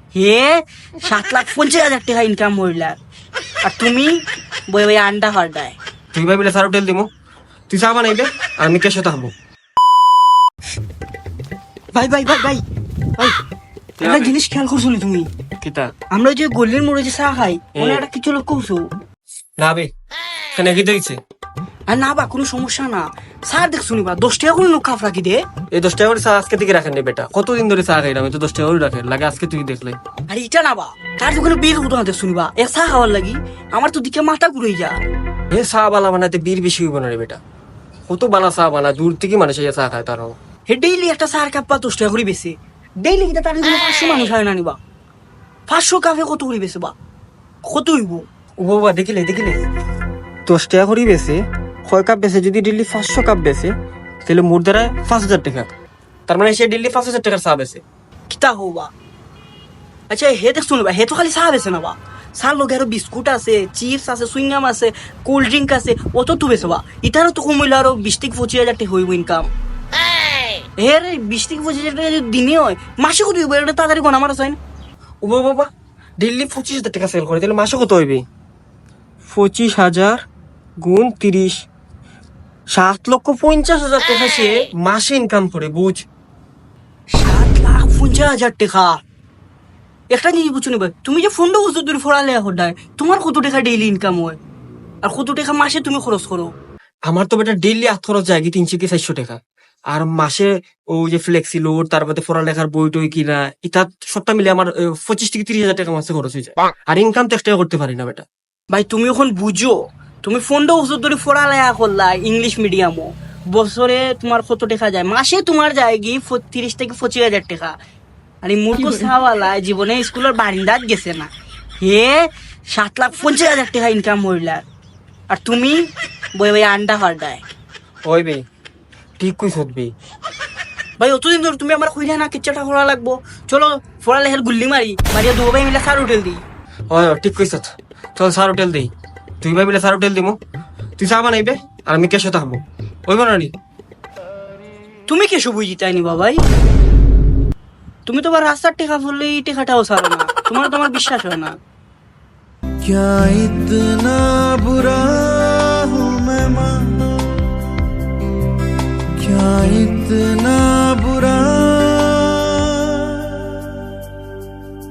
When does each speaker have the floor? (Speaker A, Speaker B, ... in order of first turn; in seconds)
Speaker A: 0.1-3.0, 3.6-5.8, 11.9-12.6, 14.0-15.3, 16.1-18.9, 21.9-25.4, 30.3-35.0, 40.7-44.8, 45.7-46.9, 47.6-48.2, 58.3-58.9, 60.1-69.5, 70.8-74.6, 87.1-89.0, 90.1-94.4, 95.0-96.5, 108.7-117.8, 118.4-121.3, 121.8-124.6, 125.3-125.8, 126.3-127.4, 131.0-136.4, 145.1-146.4, 148.1-151.6
Speaker B: 6.1-7.1, 7.7-9.3, 14.0-14.3, 15.6-15.9, 17.8-18.0, 19.6-19.9, 20.5-21.2, 25.7-30.0, 35.5-37.4, 38.1-40.4, 48.6-49.6, 50.5-53.7, 54.2-55.7, 56.3-57.8, 75.2-75.7, 76.2-78.2, 79.3-80.2, 80.8-81.7, 82.7-86.0, 97.1-99.4, 99.9-108.2, 128.1-128.4, 129.2-129.9, 136.9-138.9, 139.4-140.4, 141.0-143.5
Speaker C: 152.8-157.0, 159.2-163.6